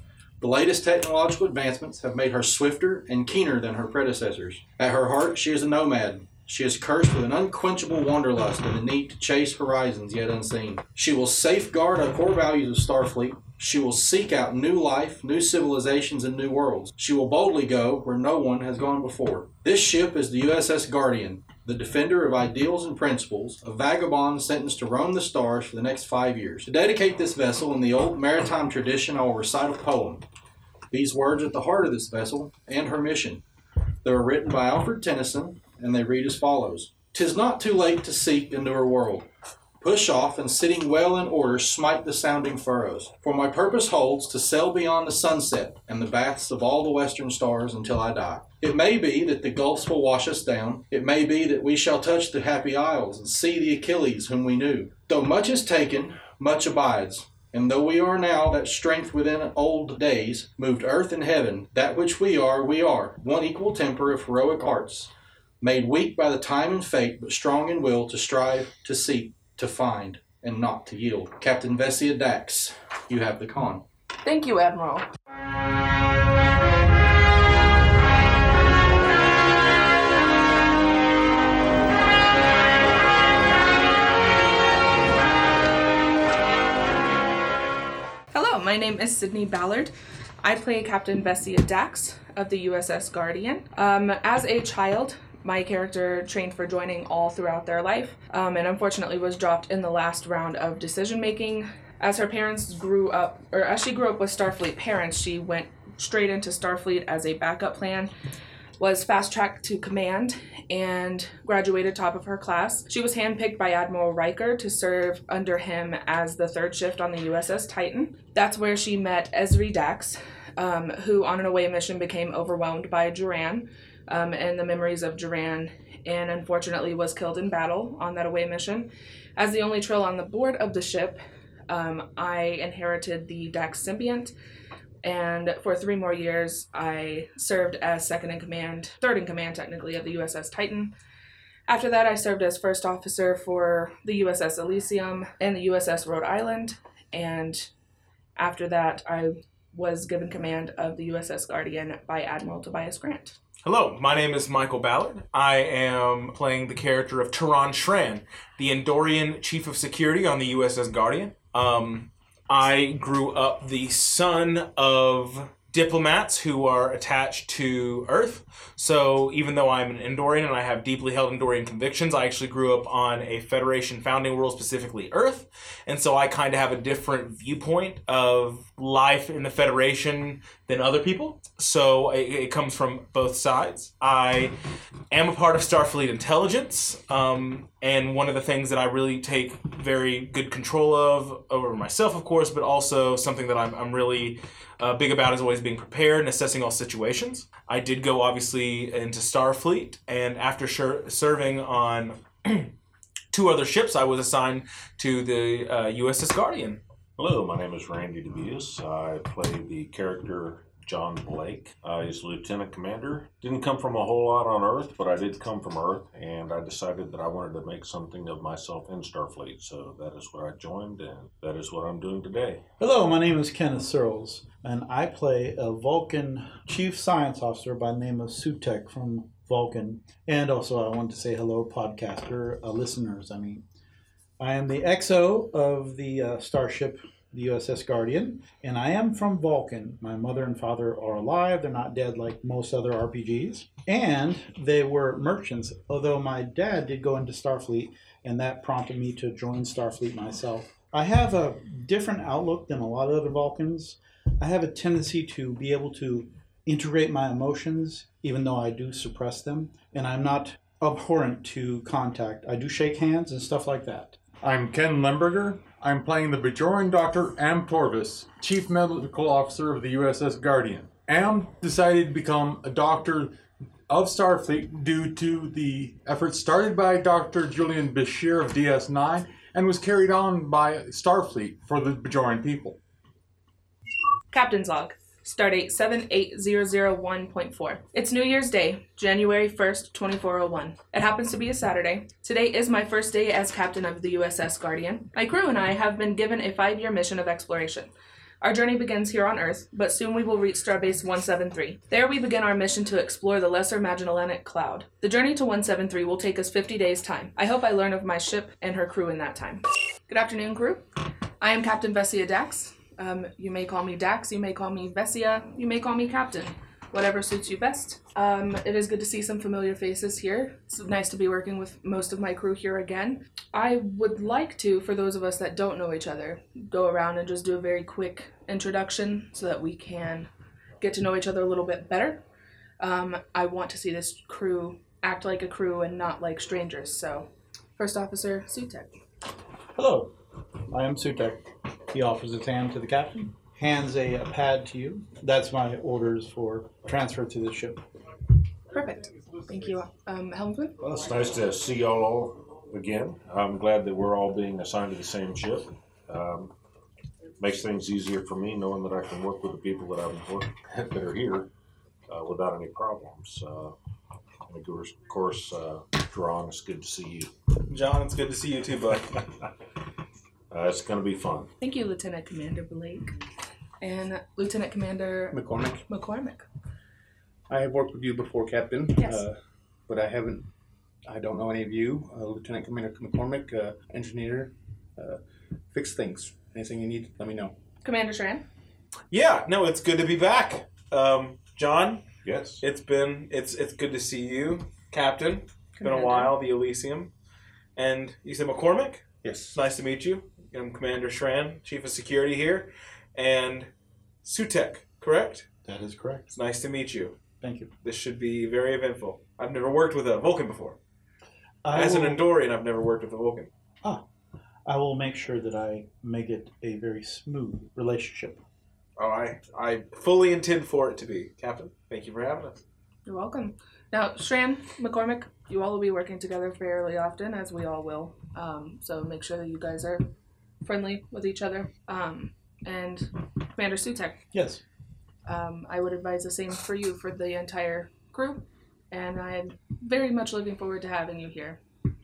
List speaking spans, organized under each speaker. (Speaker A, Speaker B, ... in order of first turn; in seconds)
Speaker A: 0.4-30.2, 30.9-33.4, 34.0-39.3, 39.8-73.8
Speaker B: 74.2-75.1, 88.3-108.1, 108.8-134.3, 135.0-140.9, 141.7-147.7, 148.4-153.3, 284.3-310.9, 311.4-330.3, 330.8-332.2, 332.8-338.9, 348.7-350.8, 371.6-373.1, 373.8-376.4, 378.9-379.2, 387.8-388.4, 395.8-396.4, 423.1-430.1, 430.6-434.2, 435.2-441.6
Speaker C: 153.6-184.5, 185.1-202.7, 203.3-206.8, 367.6-369.2, 389.1-392.1, 392.6-397.1, 397.8-403.7, 404.2-405.4, 406.3-407.1, 407.8-410.8, 411.7-413.5, 419.0-422.6
Speaker D: 207.2-222.6, 350.8-356.5, 357.4-361.5, 362.1-363.7, 364.4-367.3, 370.5-371.5, 392.2-392.6
Speaker E: 222.8-233.6, 234.4-264.2, 339.8-340.1, 340.7-347.8, 405.6-406.3, 407.4-407.7, 411.6-412.3, 414.7-418.4, 434.3-434.6
Speaker F: 264.4-273.3, 273.9-282.8
Speaker G: 375.3-375.9, 377.5-379.4, 379.9-380.5, 381.1-385.2, 385.7-387.6, 399.2-399.6